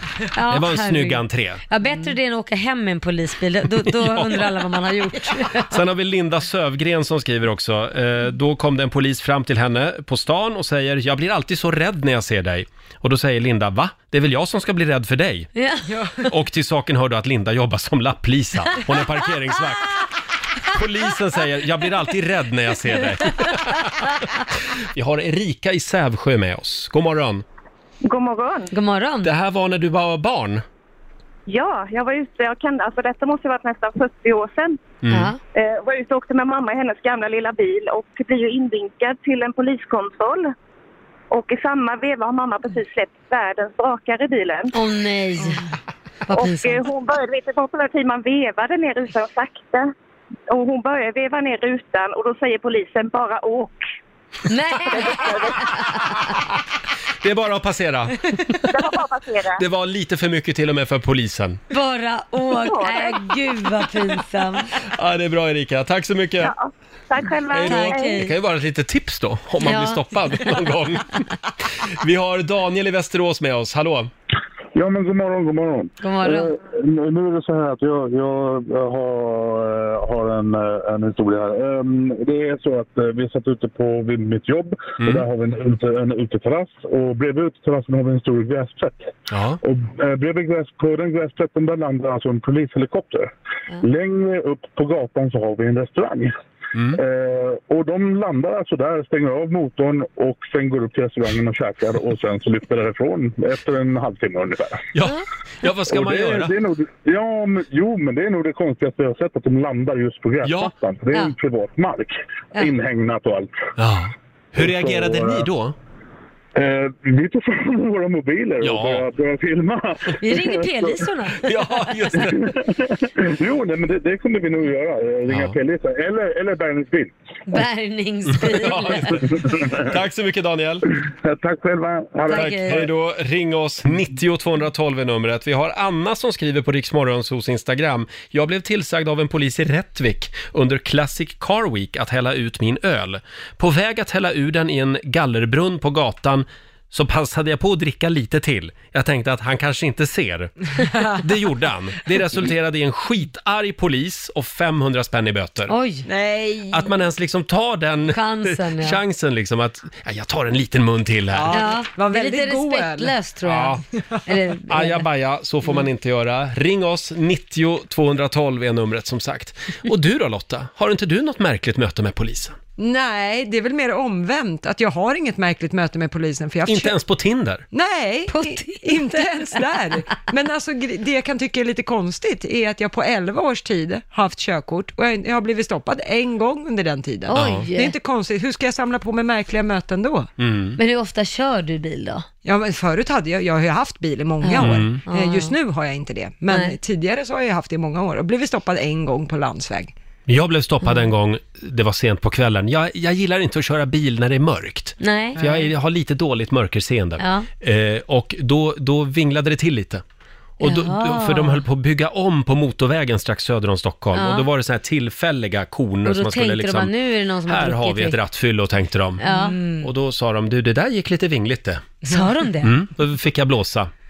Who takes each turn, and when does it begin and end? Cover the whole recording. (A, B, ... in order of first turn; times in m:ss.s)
0:00.3-0:05.7 A
0:00.4-0:01.6 B
0:03.8-0:04.6 B
0:05.6-0:15.5 B
0:15.6-0:15.8 A
0:16.2-0:20.0 B
0:20.6-0:27.4 B
0:28.0-0:28.7 C
0:28.7-0:29.3 A
0:29.2-0:30.6 B
0:31.4-0:34.8 C
0:35.0-0:35.3 B
0:35.1-0:35.4 A
0:35.5-0:40.5 C
0:41.3-0:44.8 C
0:44.7-0:45.6 A
0:46.3-0:46.8 A
0:46.3-0:49.9 C
0:50.5-0:53.8 C
0:54.5-0:56.3 A
0:54.9-0:55.7 C
0:57.2-0:58.6 B
0:58.7-0:59.6 C
0:59.6-1:01.6 B
1:01.7-1:04.7 A
1:02.6-1:03.9 C
1:04.9-1:06.5 B
1:06.4-1:08.2 C
1:07.5-1:11.2 B
1:07.6-1:08.3 A
1:09.6-1:10.0 A
1:11.8-1:14.1 B
1:14.7-1:33.3 D
1:16.0-1:16.5 A
1:25.0-1:25.2 B
1:29.3-1:29.6 B
1:33.8-1:36.3 D
1:36.7-1:37.0 B
1:36.9-1:44.9 D
1:44.9-1:46.6 B
1:45.9-1:53.5 D
1:50.4-1:50.7 B
1:53.8-1:55.7 B
1:54.6-1:55.5 D
1:56.6-2:01.1 D
1:58.6-1:59.1 B
2:00.2-2:02.0 A
2:01.4-2:02.5 B
2:02.2-2:07.1 D
2:05.3-2:05.6 B
2:07.5-2:09.3 A
2:08.3-2:10.8 B
2:09.4-2:09.8 D
2:11.2-2:12.9 D
2:12.3-2:12.9 A
2:12.3-2:35.7 B
2:35.7-2:36.0 A
2:36.0-2:36.9 E
2:36.7-2:41.6 B
2:38.1-2:39.0 A
2:41.3-2:43.1 E
2:41.5-2:45.0 A
2:43.4-2:43.8 B
2:44.7-2:52.6 B
2:52.8-2:57.0 E
2:56.6-2:57.6 B
2:57.7-3:10.3 E
2:58.3-2:59.3 A
3:07.3-3:07.9 A
3:07.3-3:07.7 B
3:10.4-3:10.8 B
3:10.8-3:12.2 A
3:12.4-3:19.9 E
3:14.4-3:15.5 A
3:14.6-3:15.0 B
3:20.3-3:30.0 B
3:25.0-3:25.4 A
3:27.2-3:27.5 A
3:30.6-3:31.6 A
3:30.6-3:36.9 B
3:34.1-3:34.5 A
3:36.0-3:38.2 A
3:37.4-3:39.2 B
3:39.2-3:39.8 A
3:39.2-3:39.7 E
3:39.8-3:42.0 B
3:42.1-3:42.7 A
3:42.6-3:43.9 B